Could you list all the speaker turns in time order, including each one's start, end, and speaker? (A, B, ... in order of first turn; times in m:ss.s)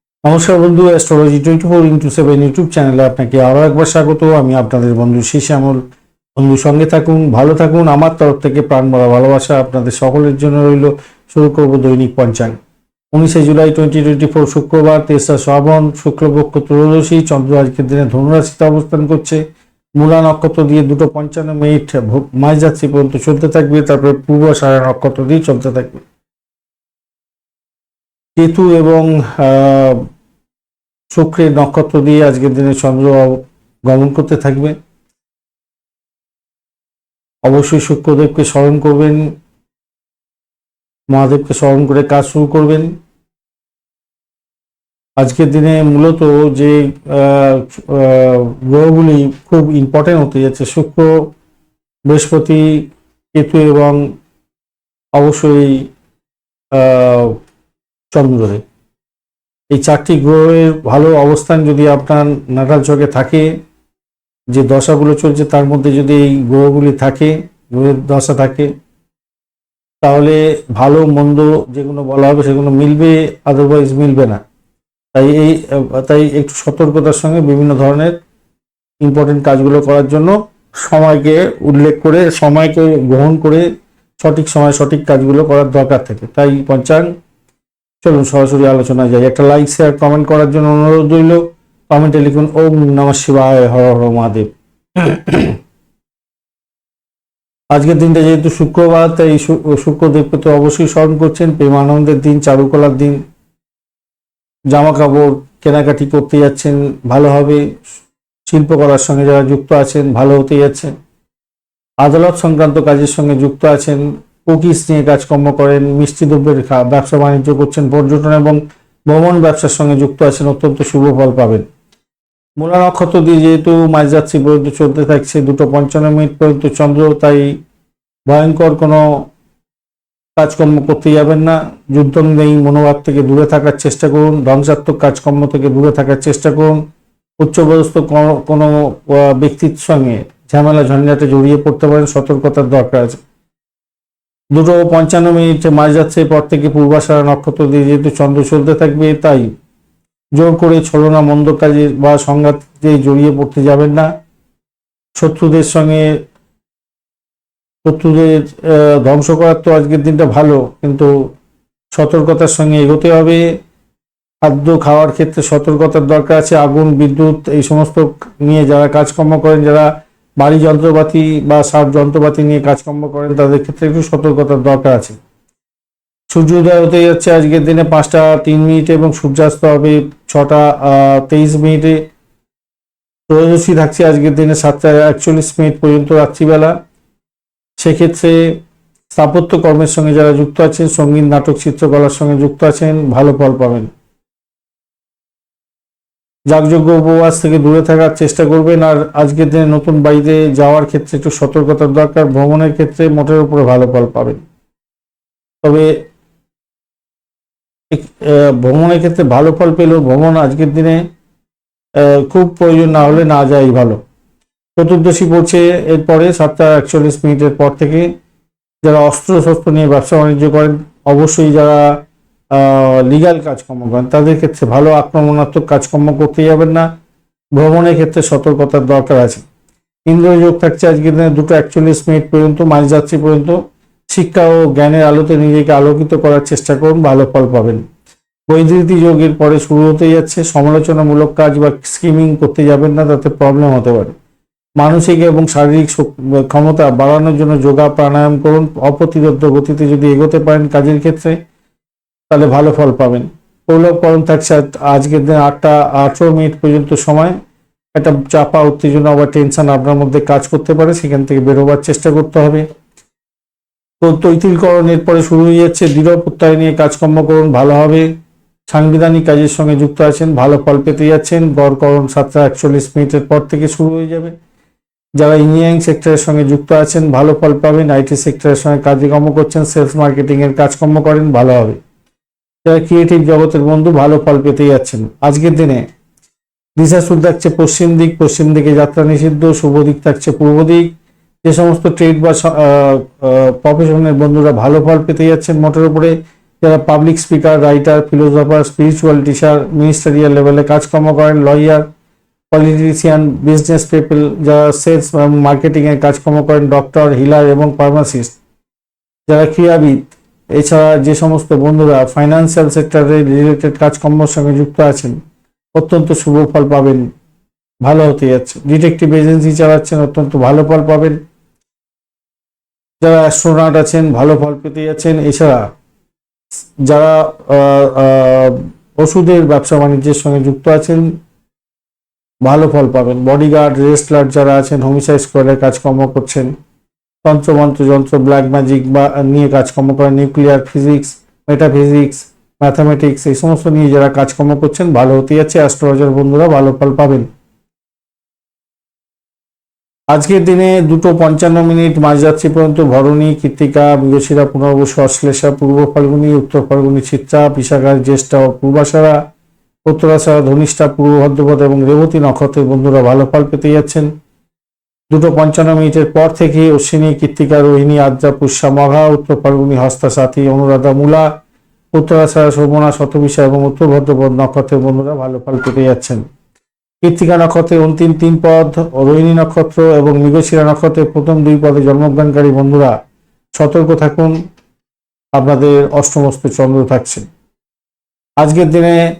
0:00.2-0:05.8 A
0:06.4-0:12.6 A
0:13.1-0:19.4 A
0:20.0-0:26.0 A
0:28.4-0:30.0 A
0:31.1-0:34.7 A
0:37.4-0:39.3 A
0:41.1-0:42.9 A
0:45.2-0:51.3 A
0:52.1-0:54.0 A
0:55.2-0:55.9 A
0:56.7-0:57.4 A
0:58.1-0:58.6 A
0:59.7-1:03.5 A
1:04.5-1:08.7 A
1:10.0-1:14.4 A
1:15.1-1:18.2 A
1:19.0-1:23.7 A
1:24.2-1:27.1 A
1:28.0-1:35.5 A
1:37.7-1:43.2 A
1:44.7-1:47.6 A
1:48.5-1:50.9 A
1:52.0-2:01.6 A
2:02.6-2:07.6 A
2:08.3-2:09.2 A
2:10.4-2:16.8 A
2:17.4-2:23.2 A
2:24.5-2:29.5 A
2:30.4-2:34.1 A
2:35.2-2:36.1 A
2:37.8-2:41.1 A
2:41.9-2:43.4 A
2:44.4-2:49.9 A
2:50.4-2:55.2 A
2:56.3-3:02.0 A
3:03.3-3:06.7 A
3:07.8-3:08.6 A
3:09.1-3:13.9 A
3:16.5-3:24.4 A
3:25.6-3:25.9 A
3:27.9-3:31.0 A
3:32.0-3:34.0 A
3:34.8-3:38.1 A
3:38.8-3:42.0 A
3:42.5-3:46.9 A
3:47.5-3:49.4 A
3:50.1-3:57.8 A
3:58.5-4:04.1 A
4:04.8-4:11.4 A
4:12.3-4:17.4 A
4:17.9-4:22.6 A
4:24.0-4:28.1 A
4:28.7-4:34.3 A
4:35.2-4:41.8 A
4:42.6-4:45.8 A
4:46.8-4:50.9 A
4:51.4-5:01.8 A
5:02.5-5:08.4 A
5:09.3-5:15.2 A
5:15.7-5:17.0 A
5:17.8-5:21.2 A
5:23.0-5:25.6 A
5:26.8-5:31.1 A
5:32.4-5:36.5 A
5:37.2-5:47.3 A
5:50.1-5:59.2 A
5:59.8-6:04.1 A
6:05.1-6:11.3 A
6:11.9-6:16.2 A
6:17.0-6:22.9 A
6:23.6-6:24.4 A
6:25.3-6:27.2 A
6:28.4-6:29.0 A